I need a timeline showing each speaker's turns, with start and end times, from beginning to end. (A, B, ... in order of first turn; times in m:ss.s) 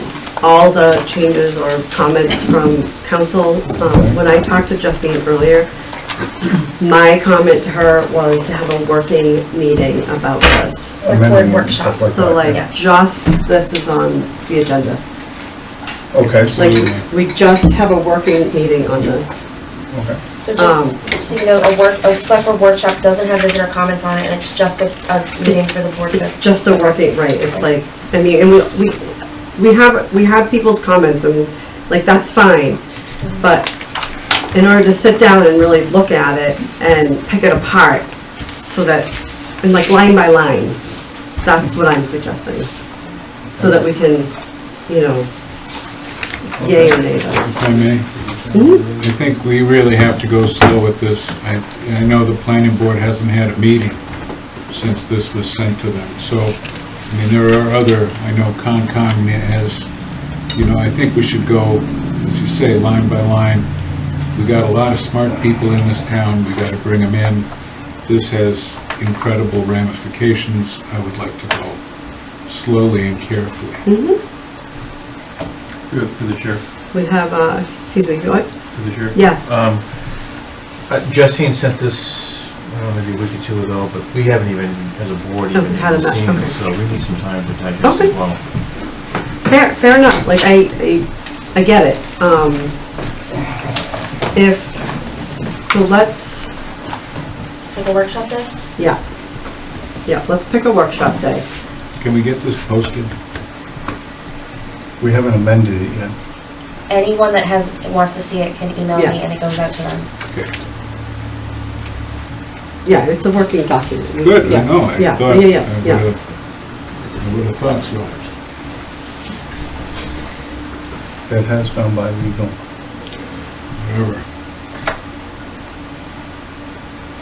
0:00.4-0:05.7 A
0:03.8-0:04.2 B
0:06.8-0:15.0 A
0:10.9-0:12.7 C
0:11.0-0:12.6 B
0:16.1-0:16.9 B
0:16.4-0:17.0 D
0:16.5-0:19.4 A
0:19.9-0:20.2 B
0:20.4-0:27.7 C
0:20.6-0:21.0 A
0:25.4-0:32.8 A
0:33.2-0:33.5 C
0:33.4-0:33.7 A
0:34.5-0:40.8 A
0:41.4-0:42.7 A
0:43.5-0:43.8 B
0:43.6-0:45.3 A
0:46.6-0:47.5 A
0:46.6-0:49.3 B
0:47.5-0:48.1 D
0:48.5-0:48.8 A
0:48.9-1:13.8 D
1:13.8-1:14.2 A
1:15.9-1:16.6 E
1:16.9-1:19.5 A
1:18.7-1:28.4 E
1:25.5-1:26.6 A
1:27.8-1:28.1 A
1:29.4-1:32.7 A
1:34.3-1:34.8 A
1:35.6-1:36.5 A
1:37.7-1:38.5 C
1:40.0-1:41.4 A
1:42.0-1:43.1 D
1:45.0-1:46.2 B
1:46.9-1:50.1 C
1:52.8-1:56.1 A
1:54.2-1:58.3 D
2:01.3-2:02.6 B
2:03.8-2:04.2 D